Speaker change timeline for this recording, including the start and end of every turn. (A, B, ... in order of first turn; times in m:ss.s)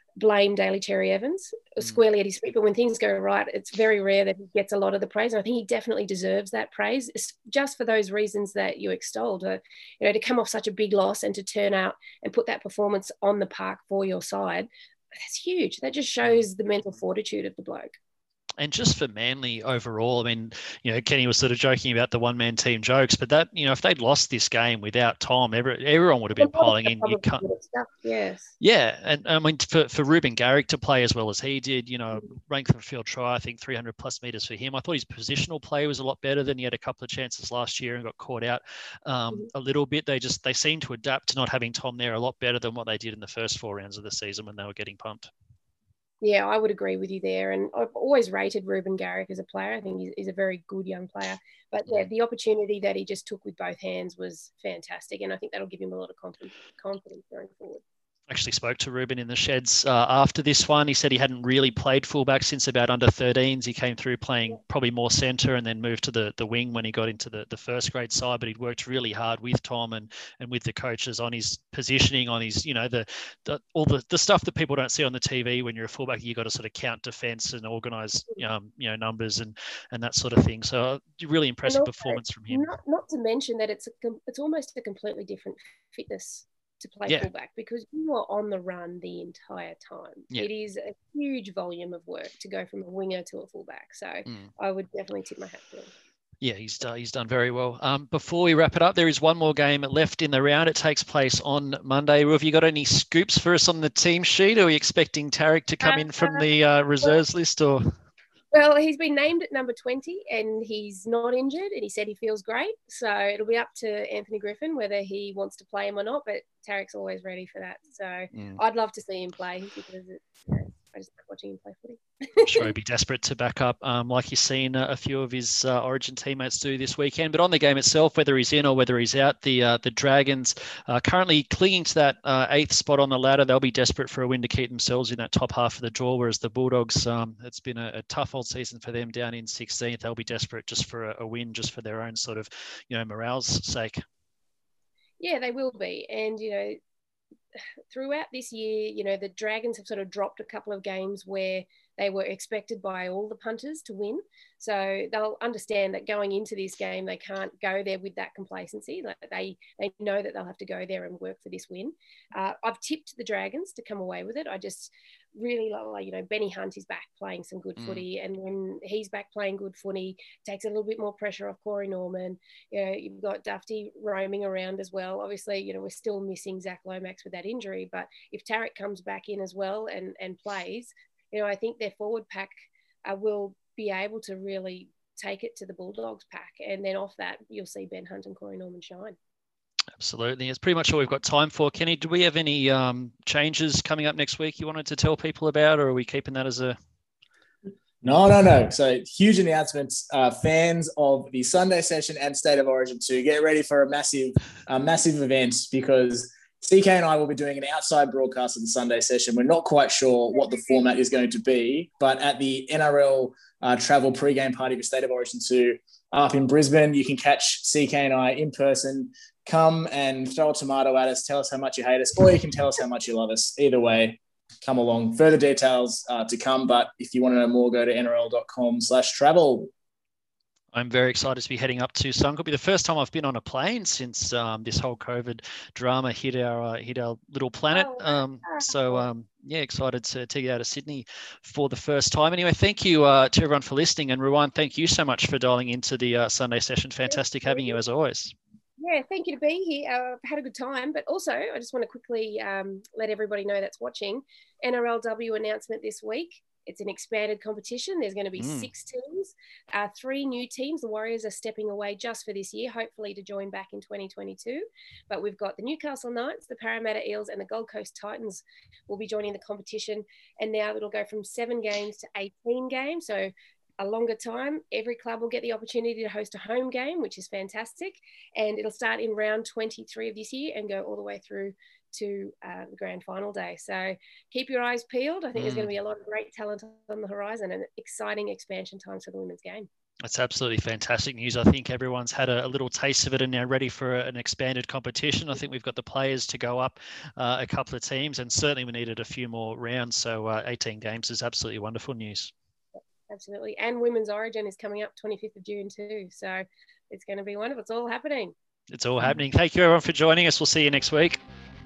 0:00.2-0:17.9 A
0:18.6-0:27.4 B
0:26.4-0:28.5 A
0:28.6-0:45.3 B
0:46.2-0:57.8 A
0:58.3-1:22.7 B
1:21.7-1:35.9 A
1:36.4-1:47.9 B
1:45.8-1:46.4 A
1:48.5-2:02.7 A
1:58.3-1:58.6 B
2:02.4-2:24.0 B
2:25.2-2:26.8 A
2:27.9-3:02.5 A
2:47.8-2:48.0 B
3:03.1-3:09.2 A
3:10.0-3:16.8 B
3:18.0-3:49.7 C
3:50.7-4:08.4 B
3:57.7-3:59.0 A
4:07.1-4:07.8 A
4:08.8-4:49.7 A
4:18.4-4:18.7 B
4:45.4-4:45.7 B
4:50.0-5:02.3 B
5:03.1-5:08.3 A
5:08.7-5:11.2 B